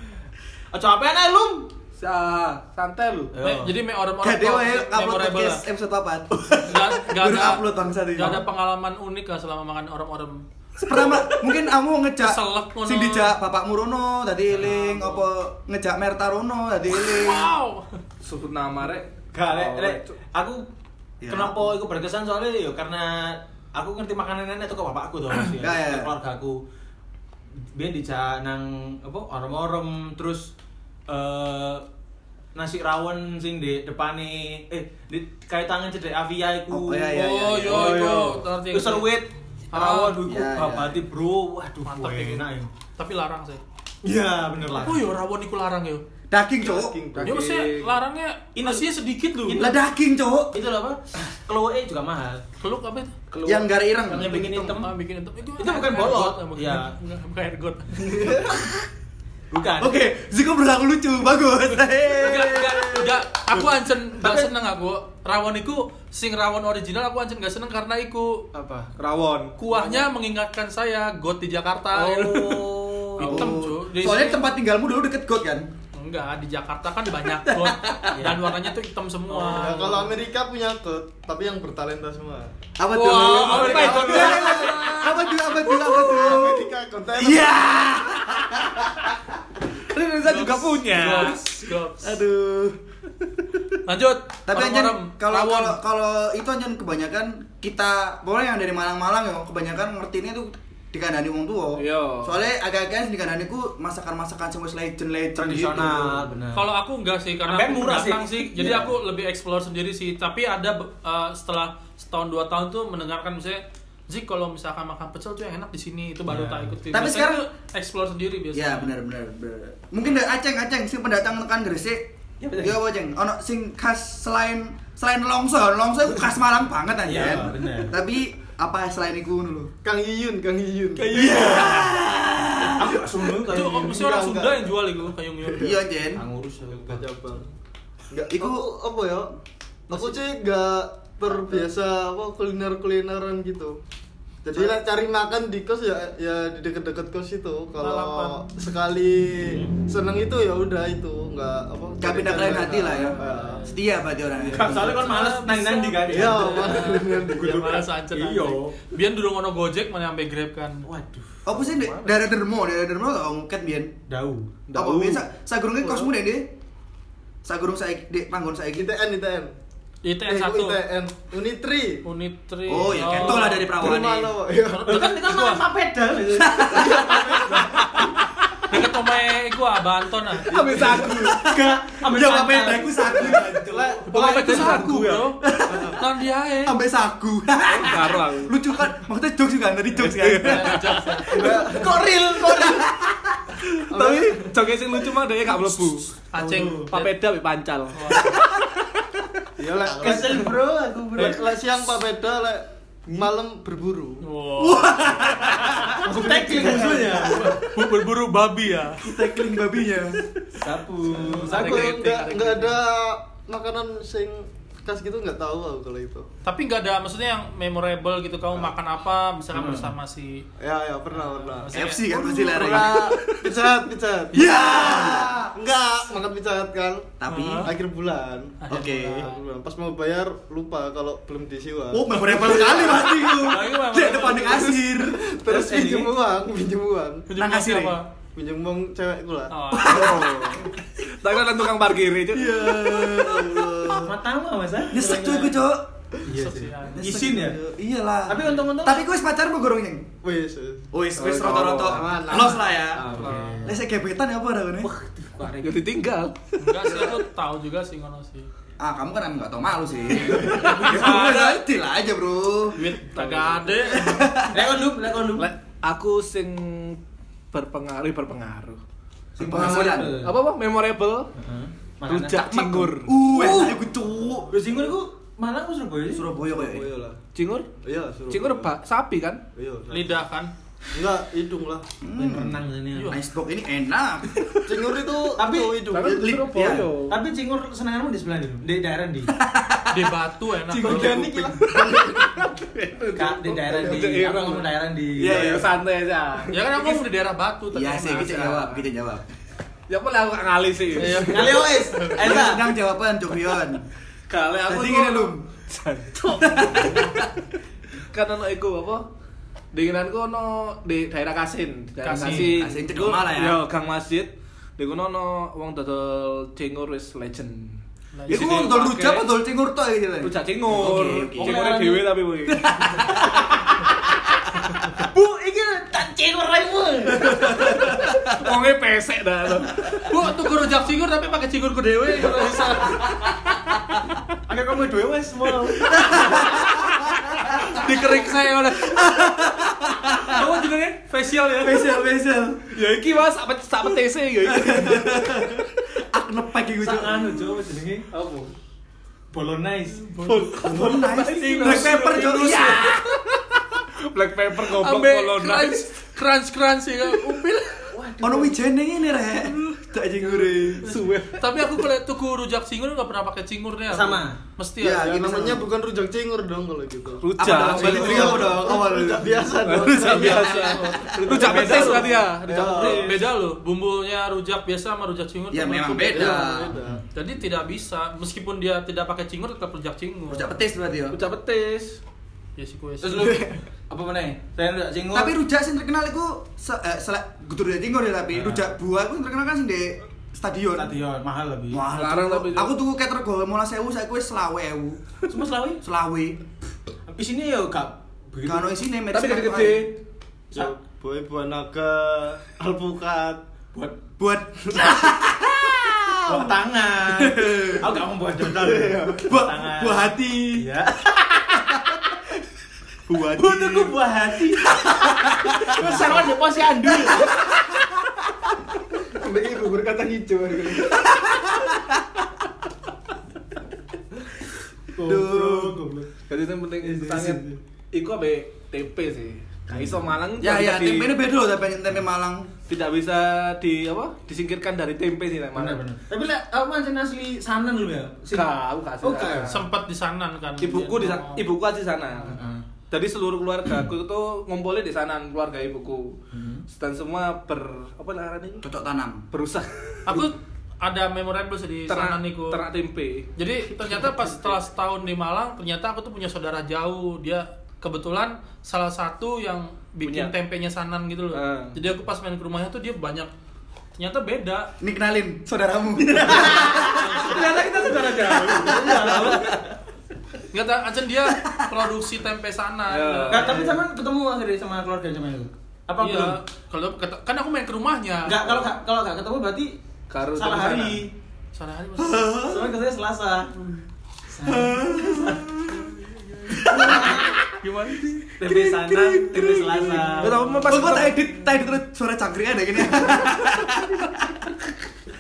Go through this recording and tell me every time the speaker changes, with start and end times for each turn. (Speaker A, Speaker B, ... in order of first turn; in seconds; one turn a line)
Speaker A: 0.7-1.7
Speaker B: 2.0-3.3
Speaker A: 3.3-3.7
Speaker C: 3.4-5.6
Speaker D: 4.2-8.4
Speaker C: 6.6-10.4
Speaker D: 10.8-17.5
Speaker C: 12.2-13.3
Speaker C: 16.9-17.9
Speaker B: 18.2-20.1
Speaker A: 19.3-20.7
Speaker D: 21.2-21.7
Speaker A: 21.3-26.6
Speaker D: 25.6-26.1
Speaker A: 27.7-30.5
Speaker A: 31.1-31.9
Speaker A: 32.5-42.7
Speaker D: 36.7-38.1
Speaker C: 37.1-39.1
Speaker C: 39.7-40.2
Speaker D: 40.2-41.0
Speaker C: 41.9-42.5
Speaker C: 43.0-43.6
Speaker A: 44.0-45.0
Speaker C: 44.7-46.0
Speaker D: 46.3-47.0
Speaker E: 46.6-47.4
Speaker B: 47.1-47.9
Speaker C: 47.2-49.6
Speaker A: 48.5-48.9
Speaker A: 49.4-49.8
Speaker D: 49.5-50.5
Speaker A: 50.5-52.4
Speaker C: 52.6-53.1
Speaker A: 53.3-54.9
Speaker D: 53.4-54.8
Speaker C: 54.7-58.4
Speaker A: 55.6-56.9
Speaker E: 58.1-58.5
Speaker A: 59.5-60.0
Speaker D: 59.8-63.2
Speaker C: 62.2-68.5
Speaker A: 64.2-64.5
Speaker A: 68.5-68.9
Speaker B: 69.0-70.1
Speaker C: 69.6-74.5
Speaker A: 72.0-73.5
Speaker B: 72.1-72.8
Speaker D: 73.2-75.7
Speaker C: 75.9-80.1
Speaker D: 77.5-78.0
Speaker A: 78.1-78.5
Speaker E: 79.4-82.5
Speaker D: 82.8-89.1
Speaker C: 82.9-84.8
Speaker B: 83.1-85.0
Speaker E: 83.5-87.8
Speaker B: 89.8-91.4
Speaker C: 90.2-92.2
Speaker D: 92.0-92.8
Speaker C: 93.9-95.8
Speaker D: 94.5-106.1
Speaker B: 101.8-102.4
Speaker A: 105.4-106.7
Speaker C: 106.5-118.9
Speaker A: 107.5-108.8
Speaker A: 116.3-116.7
Speaker D: 116.9-117.4
Speaker D: 118.5-122.1
Speaker A: 122.4-122.8
Speaker D: 122.6-129.7
Speaker A: 127.0-128.0
Speaker E: 129.8-131.8
Speaker A: 131.0-131.9
Speaker D: 131.1-133.0
Speaker A: 132.6-134.3
Speaker C: 133.5-135.8
Speaker E: 133.9-134.7
Speaker D: 135.6-136.2
Speaker A: 136.1-137.0
Speaker E: 136.8-137.4
Speaker E: 138.1-139.3
Speaker D: 138.3-138.7
Speaker C: 139.9-140.2
Speaker E: 139.9-143.8
Speaker E: 144.4-153.6
Speaker C: 147.8-148.4
Speaker D: 152.0-155.0
Speaker C: 153.1-153.7
Speaker A: 153.2-153.5
Speaker A: 154.4-158.8
Speaker C: 154.6-160.9
Speaker E: 156.1-157.8
Speaker A: 160.8-162.1
Speaker D: 161.4-164.0
Speaker A: 164.1-164.5
Speaker B: 164.7-165.2
Speaker D: 164.7-166.5
Speaker D: 167.4-168.9
Speaker E: 168.8-169.5
Speaker C: 170.0-170.8
Speaker E: 170.3-172.0
Speaker C: 172.0-173.7
Speaker D: 172.7-174.3
Speaker E: 173.2-175.1
Speaker C: 174.7-175.6
Speaker A: 174.9-178.0
Speaker D: 176.4-178.1
Speaker E: 176.6-178.1
Speaker C: 178.7-180.5
Speaker B: 180.4-181.4
Speaker A: 180.6-184.8
Speaker E: 180.6-181.2
Speaker D: 180.8-184.0
Speaker B: 184.1-185.3
Speaker C: 184.1-186.8
Speaker D: 185.4-186.0
Speaker D: 186.6-190.8
Speaker B: 187.7-188.6
Speaker B: 190.0-191.2
Speaker C: 190.4-191.6
Speaker E: 191.3-192.1
Speaker A: 191.3-192.9
Speaker D: 192.4-193.4
Speaker B: 193.6-196.1
Speaker E: 193.9-194.5
Speaker C: 196.2-197.1
Speaker A: 196.4-196.9
Speaker B: 196.9-199.0
Speaker C: 197.9-198.4
Speaker E: 199.6-200.6
Speaker A: 199.8-201.6
Speaker E: 201.1-204.2
Speaker C: 204.2-205.3
Speaker D: 204.6-207.5
Speaker E: 205.9-207.7
Speaker A: 206.0-207.6
Speaker C: 207.3-209.1
Speaker D: 209.0-210.2
Speaker A: 210.6-211.9
Speaker E: 211.1-216.2
Speaker C: 211.5-212.8
Speaker C: 216.4-220.4
Speaker A: 219.5-219.9
Speaker E: 220.6-237.3
Speaker C: 221.1-222.0
Speaker D: 221.7-223.2
Speaker B: 222.7-223.4
Speaker D: 224.3-225.5
Speaker D: 227.2-227.7
Speaker C: 227.3-227.7
Speaker C: 228.6-229.4
Speaker D: 228.7-229.3
Speaker D: 231.9-235.2
Speaker C: 233.4-234.7
Speaker A: 233.9-234.3
Speaker A: 235.4-236.2
Speaker C: 237.3-238.1
Speaker D: 237.4-238.0
Speaker E: 238.4-239.6
Speaker C: 239.5-240.2
Speaker D: 239.7-240.3
Speaker B: 239.8-243.1
Speaker D: 242.3-244.1
Speaker A: 243.9-245.6
Speaker D: 244.9-245.9
Speaker A: 246.2-247.6
Speaker C: 246.3-247.1
Speaker D: 246.9-250.1
Speaker A: 248.3-249.0
Speaker E: 250.2-250.9
Speaker D: 250.9-254.9
Speaker B: 251.2-252.4
Speaker E: 251.9-253.0
Speaker A: 252.2-252.4
Speaker A: 252.9-253.8
Speaker B: 253.0-253.5
Speaker A: 254.8-255.8
Speaker B: 255.6-257.0
Speaker C: 256.6-258.5
Speaker D: 258.8-262.8
Speaker C: 260.4-261.5
Speaker B: 260.4-261.6
Speaker C: 262.8-264.4
Speaker B: 263.1-263.8
Speaker D: 263.9-264.7
Speaker A: 264.5-265.5
Speaker B: 265.4-267.0
Speaker B: 267.5-268.8
Speaker A: 269.4-270.4
Speaker D: 269.4-270.1
Speaker B: 269.6-271.3
Speaker A: 271.4-272.7
Speaker B: 272.1-273.2
Speaker D: 272.5-274.5
Speaker A: 273.2-273.8
Speaker A: 274.5-276.3
Speaker D: 276.1-276.9
Speaker E: 276.4-277.2
Speaker B: 277.4-277.7
Speaker E: 277.8-278.7
Speaker B: 278.3-279.4
Speaker E: 279.5-280.2
Speaker C: 279.9-280.5
Speaker E: 280.9-281.9
Speaker D: 282.0-284.4
Speaker A: 282.2-283.2
Speaker C: 282.9-283.2
Speaker B: 284.4-284.7
Speaker E: 284.6-286.5
Speaker A: 285.4-285.9
Speaker B: 285.9-287.2
Speaker D: 286.3-286.9
Speaker A: 287.1-289.3
Speaker D: 289.3-290.1
Speaker C: 289.9-291.2
Speaker D: 290.7-291.6
Speaker E: 290.8-292.1
Speaker B: 290.8-294.7
Speaker A: 293.1-295.7
Speaker D: 295.2-295.7
Speaker B: 295.2-297.0
Speaker C: 296.5-298.7
Speaker D: 297.7-299.2
Speaker B: 299.9-301.6
Speaker C: 301.0-302.2
Speaker A: 301.1-302.7
Speaker D: 302.2-303.8
Speaker B: 304.3-307.0
Speaker D: 304.7-305.4
Speaker D: 306.3-307.3
Speaker B: 308.1-309.0
Speaker B: 309.7-319.3
Speaker C: 312.0-312.6
Speaker D: 312.3-313.6
Speaker C: 318.1-318.7
Speaker D: 318.3-321.6
Speaker B: 320.2-323.0
Speaker A: 320.8-322.2
Speaker D: 322.5-323.4
Speaker A: 323.2-324.1
Speaker A: 324.9-327.8
Speaker B: 327.2-330.2
Speaker D: 327.4-328.2
Speaker C: 330.1-333.1
Speaker A: 334.5-336.4
Speaker D: 335.9-337.8
Speaker C: 337.6-339.0
Speaker B: 337.8-338.8
Speaker D: 338.8-340.4
Speaker C: 340.2-341.9
Speaker B: 340.3-340.9
Speaker D: 341.6-342.7
Speaker B: 342.7-345.6
Speaker D: 344.4-347.4
Speaker A: 346.8-348.1
Speaker B: 348.1-348.5
Speaker A: 349.3-350.0
Speaker C: 350.0-350.8
Speaker B: 350.2-355.9
Speaker D: 350.6-353.0
Speaker C: 351.6-352.2
Speaker C: 354.6-357.9
Speaker A: 357.9-358.6
Speaker D: 358.2-360.9
Speaker B: 360.8-361.7
Speaker C: 360.9-365.1
Speaker A: 363.9-364.4
Speaker D: 364.8-365.7
Speaker E: 364.9-373.2
Speaker B: 367.2-368.6
Speaker D: 367.4-372.1
Speaker C: 367.8-368.2
Speaker A: 368.1-368.5
Speaker B: 369.6-373.2
Speaker C: 370.1-372.0
Speaker A: 371.2-373.0
Speaker C: 372.5-376.5
Speaker D: 375.5-376.8
Speaker E: 376.1-377.0
Speaker C: 377.1-380.5
Speaker D: 380.3-381.2
Speaker B: 381.1-382.0
Speaker C: 382.6-383.5
Speaker A: 383.0-385.4
Speaker D: 385.1-390.9
Speaker A: 388.3-388.7
Speaker A: 390.8-391.9
Speaker D: 391.7-395.0
Speaker B: 391.9-392.7
Speaker A: 395.3-395.8
Speaker D: 395.8-396.4
Speaker A: 397.1-398.8
Speaker D: 398.4-399.9
Speaker B: 399.1-400.0
Speaker E: 400.5-403.4
Speaker A: 403.7-404.0
Speaker D: 404.2-408.0
Speaker A: 406.3-411.8
Speaker E: 408.6-409.2
Speaker D: 409.1-410.7
Speaker D: 413.1-413.9
Speaker A: 413.3-417.4
Speaker D: 414.7-416.2
Speaker E: 419.1-421.0
Speaker D: 420.9-421.9
Speaker A: 424.9-426.1
Speaker D: 425.0-425.8
Speaker B: 426.3-431.1
Speaker A: 426.8-427.6
Speaker A: 429.7-430.1
Speaker D: 430.4-432.5
Speaker B: 432.7-435.8
Speaker A: 435.5-438.5
Speaker B: 438.3-439.6
Speaker A: 439.0-439.6
Speaker C: 439.5-441.4
Speaker B: 440.6-442.4
Speaker A: 442.2-442.6
Speaker B: 442.9-448.6
Speaker A: 446.3-446.6
Speaker D: 448.6-449.2
Speaker B: 449.3-450.3
Speaker C: 450.1-452.6
Speaker B: 451.9-453.3
Speaker C: 453.4-463.3
Speaker B: 460.0-460.3
Speaker B: 461.3-461.8
Speaker C: 464.0-464.7
Speaker D: 464.8-467.3
Speaker A: 466.1-469.7
Speaker C: 466.8-467.5
Speaker B: 467.9-468.8
Speaker D: 468.2-469.6
Speaker C: 470.5-473.6
Speaker D: 471.3-471.8
Speaker B: 472.9-473.7
Speaker A: 473.3-476.4
Speaker C: 476.0-478.6
Speaker A: 478.2-479.8
Speaker B: 480.1-481.0
Speaker A: 480.4-481.1
Speaker C: 481.5-482.4
Speaker D: 482.0-482.7
Speaker A: 482.4-483.5
Speaker A: 484.3-485.5
Speaker D: 484.4-485.9
Speaker C: 485.7-488.4
Speaker D: 486.5-487.3
Speaker A: 486.7-487.3
Speaker A: 488.4-490.8
Speaker D: 488.4-489.8
Speaker B: 489.5-491.3
Speaker D: 490.6-494.4